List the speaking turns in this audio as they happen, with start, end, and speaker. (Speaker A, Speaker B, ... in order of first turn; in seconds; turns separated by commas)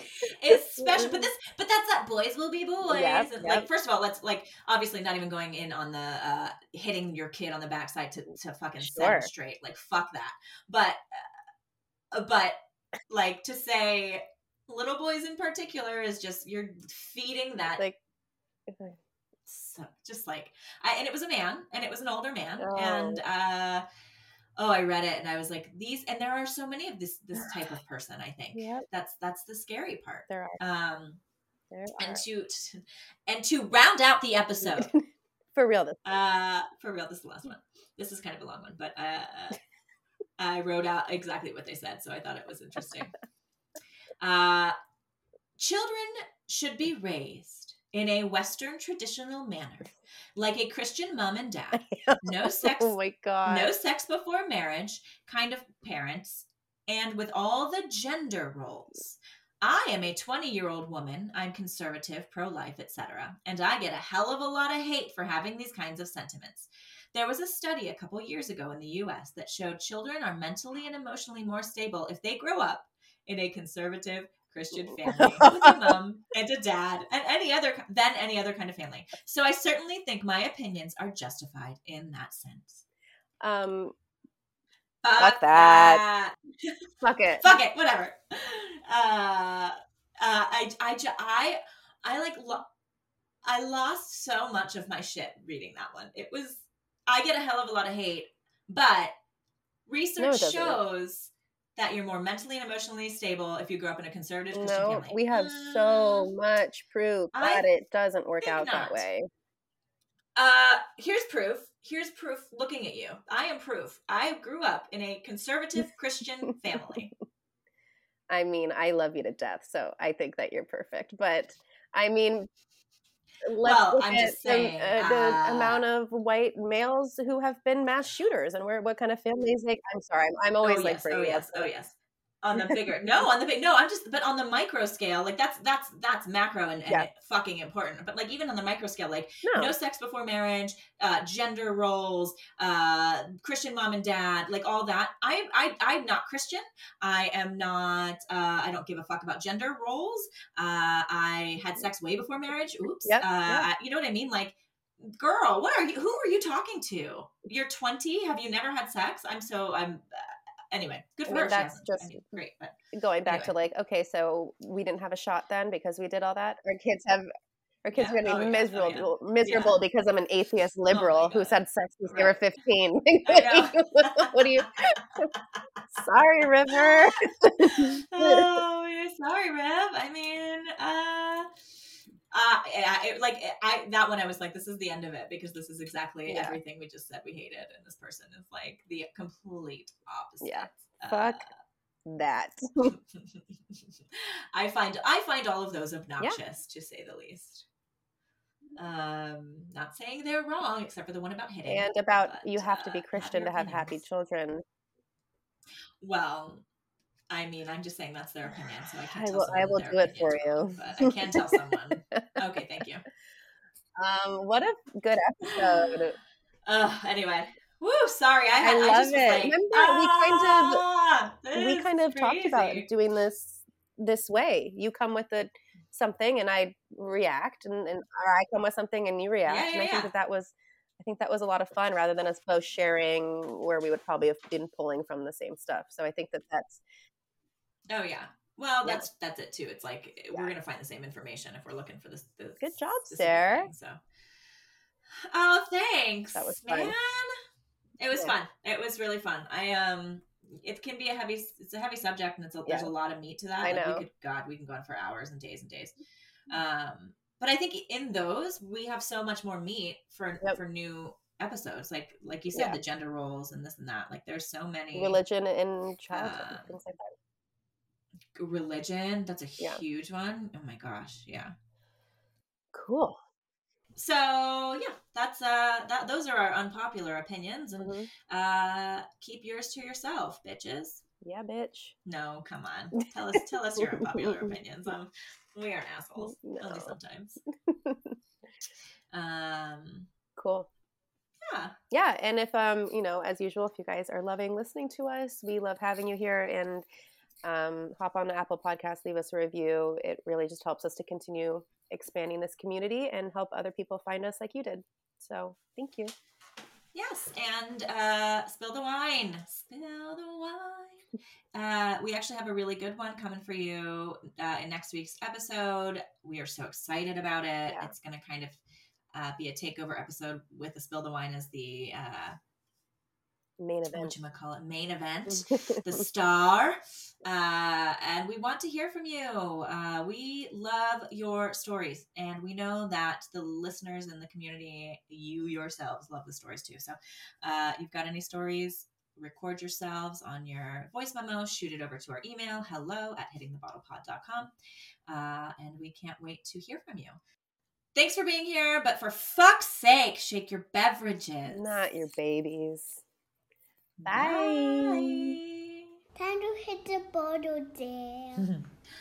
Speaker A: 0.2-11.2, Speaker B: 0.5-1.3, Speaker B: 2.9-3.7, Speaker B: 8.8-9.3, Speaker A: 12.1-12.6, Speaker A: 13.1-17.8, Speaker B: 18.7-19.0, Speaker A: 19.5-23.8, Speaker B: 22.6-23.2, Speaker A: 24.6-31.2, Speaker B: 28.6-28.9, Speaker B: 30.3-30.6, Speaker B: 31.7-32.2, Speaker A: 32.0-34.9, Speaker B: 34.6-35.0, Speaker B: 35.5-36.0, Speaker A: 36.0-39.6, Speaker A: 40.4-43.1, Speaker A: 44.2-44.8, Speaker A: 45.6-82.8, Speaker B: 51.7-53.7, Speaker B: 75.0-75.9, Speaker B: 83.4-84.0, Speaker A: 85.0-86.7, Speaker B: 85.2-86.0, Speaker B: 87.0-87.6, Speaker A: 87.4-92.7, Speaker A: 93.5-99.1, Speaker A: 99.9-106.3, Speaker B: 100.2-100.8, Speaker B: 104.5-109.3, Speaker A: 107.3-107.7, Speaker A: 108.4-109.0, Speaker A: 110.4-117.1, Speaker B: 118.3-122.5, Speaker B: 123.4-131.7, Speaker A: 123.6-125.8, Speaker A: 130.6-162.7, Speaker B: 132.5-132.8, Speaker B: 139.4-139.7, Speaker B: 153.0-153.7, Speaker B: 161.3-162.2, Speaker B: 162.9-167.3, Speaker A: 163.3-163.5, Speaker B: 167.8-175.3, Speaker A: 167.9-169.8, Speaker A: 170.9-172.4, Speaker A: 173.3-175.4, Speaker B: 175.9-178.5, Speaker A: 176.7-181.5, Speaker A: 182.3-191.6, Speaker B: 186.3-186.6, Speaker B: 190.4-191.4, Speaker B: 192.1-192.9, Speaker A: 193.2-197.7, Speaker A: 198.8-203.9, Speaker B: 201.7-204.6, Speaker A: 206.0-206.6, Speaker A: 207.3-213.0, Speaker B: 209.1-211.6, Speaker B: 214.0-216.2, Speaker A: 215.4-216.0, Speaker A: 216.7-222.9, Speaker B: 218.6-220.8, Speaker B: 221.6-236.8, Speaker A: 229.5-230.1, Speaker A: 237.9-244.0, Speaker B: 242.6-243.7, Speaker A: 245.3-247.4, Speaker B: 246.3-246.9, Speaker A: 248.0-256.0, Speaker B: 252.7-252.9, Speaker B: 253.6-254.0, Speaker A: 256.5-265.2, Speaker B: 262.5-262.8, Speaker B: 264.9-267.1, Speaker A: 266.1-266.8, Speaker A: 268.4-271.5, Speaker B: 272.7-273.2, Speaker A: 274.0-281.0, Speaker B: 277.8-278.1, Speaker B: 281.2-281.9, Speaker A: 282.1-287.4, Speaker B: 284.2-284.5, Speaker B: 286.2-287.0, Speaker B: 287.7-288.2, Speaker A: 289.1-290.1, Speaker B: 290.4-290.7, Speaker A: 291.5-291.8, Speaker B: 291.9-296.9, Speaker B: 297.4-306.1, Speaker A: 306.9-318.6, Speaker A: 319.1-322.4, Speaker B: 323.6-324.2, Speaker A: 323.9-344.5, Speaker B: 325.3-326.0, Speaker A: 345.1-347.2, Speaker A: 347.9-351.8, Speaker B: 351.5-353.0, Speaker A: 354.0-355.8, Speaker B: 354.1-355.3, Speaker C: 356.2-358.5, Speaker A: 358.4-358.7